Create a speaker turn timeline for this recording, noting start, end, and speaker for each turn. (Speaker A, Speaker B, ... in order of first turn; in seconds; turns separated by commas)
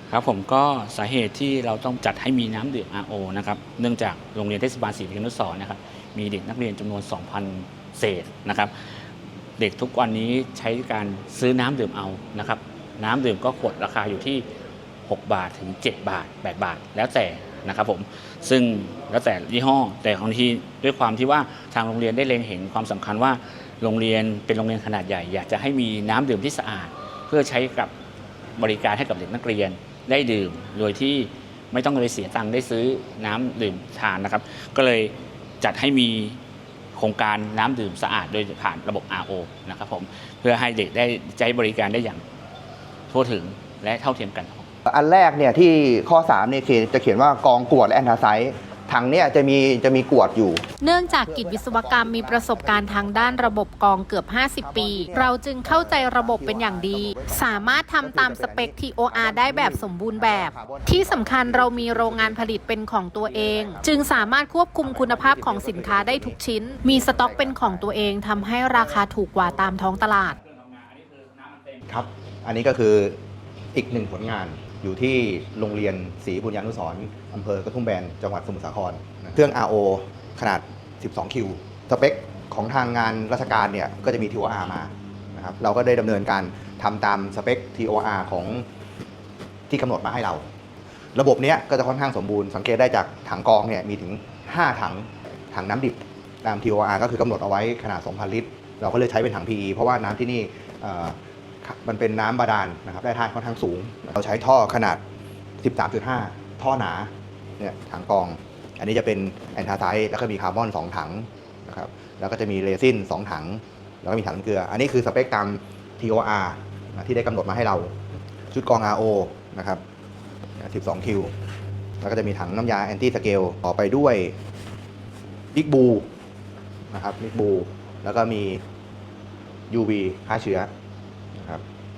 Speaker A: 0.1-8.7, Speaker A: 9.6-14.4, Speaker A: 15.1-27.9, Speaker A: 28.6-36.4, Speaker A: 36.9-42.2, Speaker A: 43.1-44.7, Speaker B: 44.9-53.6, Speaker C: 50.8-70.4, Speaker B: 54.6-62.6, Speaker B: 63.2-64.3, Speaker B: 64.8-68.0, Speaker A: 69.6-71.8, Speaker B: 71.9-73.2, Speaker B: 73.7-88.7, Speaker B: 89.7-90.5, Speaker B: 91.1-105.0, Speaker B: 105.6-117.9, Speaker B: 118.5-119.8, Speaker B: 120.6-121.3, Speaker B: 122.0-124.3, Speaker B: 125.5-126.1, Speaker B: 126.9-128.6, Speaker B: 129.7-130.7, Speaker B: 131.4-131.6